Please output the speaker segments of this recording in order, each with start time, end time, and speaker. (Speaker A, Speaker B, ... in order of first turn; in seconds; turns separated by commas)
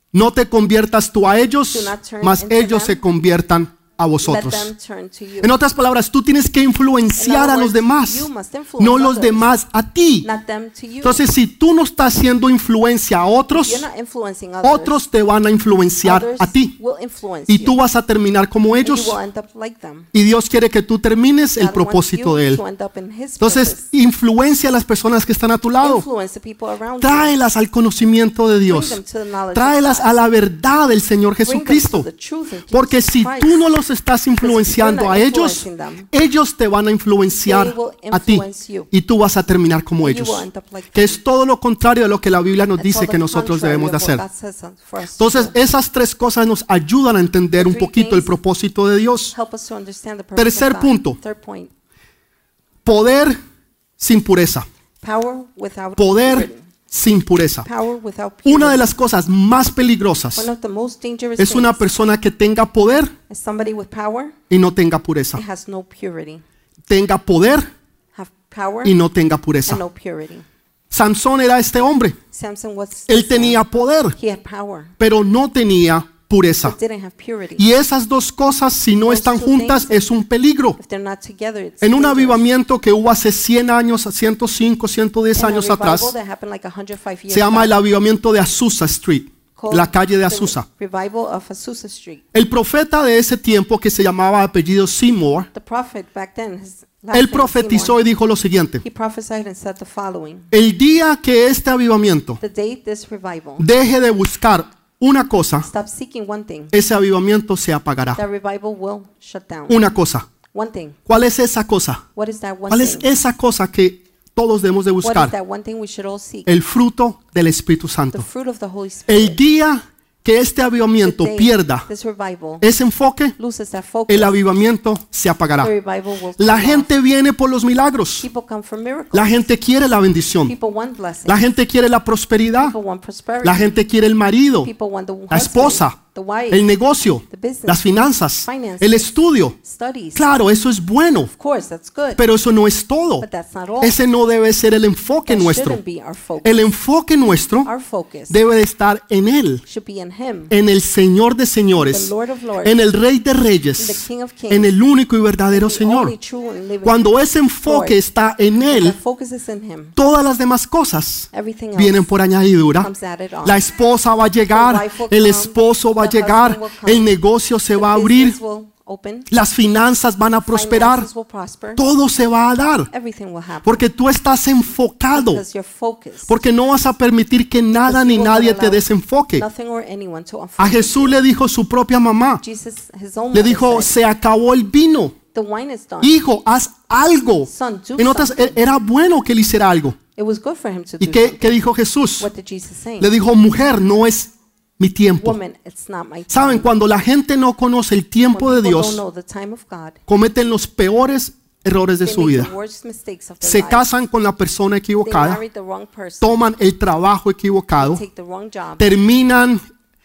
Speaker A: 0.1-4.7, Speaker B: 1.7-3.0, Speaker B: 4.2-5.5, Speaker A: 5.4-8.3, Speaker B: 7.2-9.5, Speaker A: 8.8-10.3, Speaker B: 10.2-11.2, Speaker A: 11.0-13.9, Speaker B: 13.5-15.0, Speaker A: 14.6-16.8, Speaker B: 16.0-17.8, Speaker A: 17.5-19.2, Speaker B: 18.8-20.1, Speaker A: 20.1-22.6, Speaker B: 21.6-23.9, Speaker A: 23.4-26.1, Speaker B: 25.8-27.3, Speaker A: 27.0-29.0, Speaker B: 28.7-30.1, Speaker A: 29.5-32.1, Speaker B: 31.4-33.7, Speaker A: 32.7-44.2, Speaker B: 34.4-36.1, Speaker B: 37.3-38.9, Speaker B: 40.0-41.2, Speaker B: 42.8-45.5, Speaker A: 45.2-49.3, Speaker B: 47.5-48.4, Speaker B: 49.3-51.7, Speaker A: 50.4-51.2, Speaker A: 52.9-53.4, Speaker A: 54.0-54.7, Speaker B: 55.0-56.7, Speaker A: 56.0-57.7, Speaker B: 57.6-58.9, Speaker A: 58.5-60.5, Speaker B: 60.4-62.0, Speaker A: 61.4-63.1, Speaker B: 63.3-64.4, Speaker A: 64.5-65.4, Speaker B: 65.3-66.4, Speaker A: 66.9-67.7, Speaker B: 68.2-69.0, Speaker A: 68.8-69.8, Speaker B: 69.7-70.4, Speaker A: 70.9-72.2, Speaker B: 72.3-73.6, Speaker A: 73.1-74.2, Speaker B: 74.2-74.9, Speaker A: 75.0-76.8, Speaker B: 76.6-77.7, Speaker A: 77.6-80.8, Speaker B: 79.0-80.1, Speaker B: 80.8-82.4, Speaker A: 81.8-86.1, Speaker B: 85.4-87.8, Speaker A: 87.3-90.7, Speaker B: 89.6-92.2, Speaker A: 92.3-95.5, Speaker B: 95.5-98.0, Speaker A: 97.1-98.8, Speaker B: 98.8-100.5, Speaker A: 100.5-102.4, Speaker B: 102.4-103.7, Speaker A: 103.6-105.7, Speaker B: 105.6-106.7, Speaker A: 106.7-108.2, Speaker B: 108.2-109.8, Speaker A: 109.7-110.3, Speaker B: 110.5-111.0, Speaker A: 111.1-112.0, Speaker B: 112.2-113.1, Speaker A: 112.7-115.3, Speaker B: 115.0-116.5, Speaker A: 116.5-118.3, Speaker B: 118.1-119.4, Speaker A: 119.1-121.9, Speaker B: 121.0-122.7, Speaker A: 122.6-123.4, Speaker B: 123.4-124.4, Speaker A: 124.1-125.7, Speaker B: 125.6-126.9, Speaker A: 126.4-128.3, Speaker B: 128.2-129.5, Speaker A: 129.1-130.6, Speaker B: 130.5-131.5, Speaker A: 131.3-132.8, Speaker B: 132.6-133.8, Speaker A: 133.4-134.7, Speaker B: 134.6-136.7, Speaker A: 135.3-136.0, Speaker A: 136.5-139.6, Speaker B: 137.3-137.9, Speaker B: 138.4-140.3, Speaker A: 140.2-141.3, Speaker B: 141.3-142.2, Speaker A: 142.2-143.3, Speaker B: 143.2-144.0, Speaker A: 143.8-145.8, Speaker B: 145.3-146.7, Speaker A: 146.4-147.7, Speaker B: 147.7-148.4, Speaker A: 148.3-149.6, Speaker B: 149.7-150.5, Speaker A: 150.5-152.1, Speaker B: 151.8-152.8, Speaker A: 152.6-156.2, Speaker B: 153.8-154.7, Speaker B: 155.5-158.0, Speaker A: 156.8-159.0, Speaker B: 158.7-160.0, Speaker A: 160.0-162.9, Speaker B: 161.3-162.1, Speaker B: 162.8-163.7, Speaker A: 163.4-168.4, Speaker B: 164.5-167.1, Speaker B: 167.7-169.3, Speaker A: 169.3-171.1, Speaker B: 170.4-171.8, Speaker A: 171.8-172.9, Speaker B: 172.9-173.9, Speaker A: 173.6-175.4, Speaker B: 175.1-176.4, Speaker A: 176.3-179.5, Speaker B: 177.7-178.8, Speaker B: 179.4-181.2, Speaker A: 180.6-182.4, Speaker B: 182.4-183.9, Speaker A: 183.3-185.2, Speaker B: 185.3-186.2, Speaker A: 186.0-190.0, Speaker B: 187.5-188.6, Speaker B: 190.2-191.6, Speaker A: 191.0-192.3, Speaker B: 192.2-193.1, Speaker A: 193.0-195.4, Speaker B: 195.2-196.7, Speaker A: 196.3-199.0, Speaker B: 198.3-200.0, Speaker A: 200.1-202.5, Speaker B: 202.0-203.9, Speaker A: 203.4-205.4, Speaker B: 205.0-206.4, Speaker A: 206.2-208.0, Speaker B: 207.8-208.9, Speaker A: 208.8-209.6